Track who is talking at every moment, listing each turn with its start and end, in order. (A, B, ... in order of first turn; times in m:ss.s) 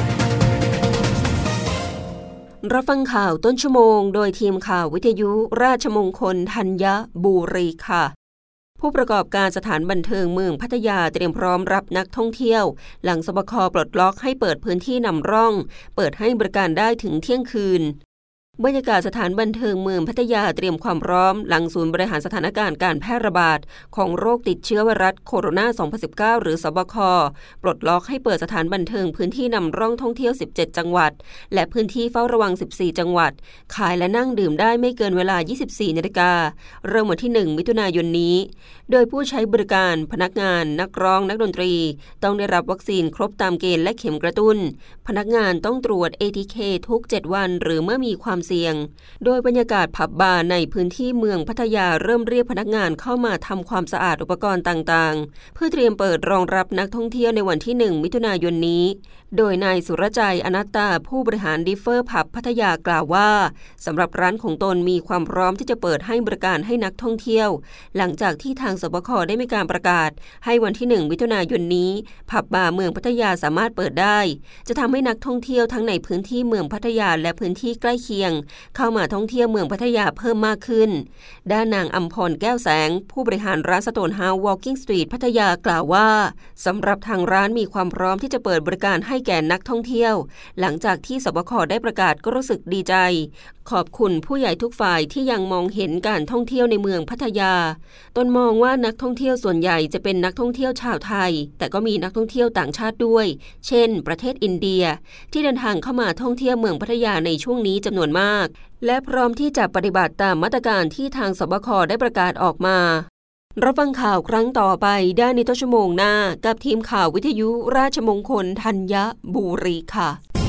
0:02.6-0:08.1 A
0:08.8-0:18.0 A
0:18.6-2:00.2 A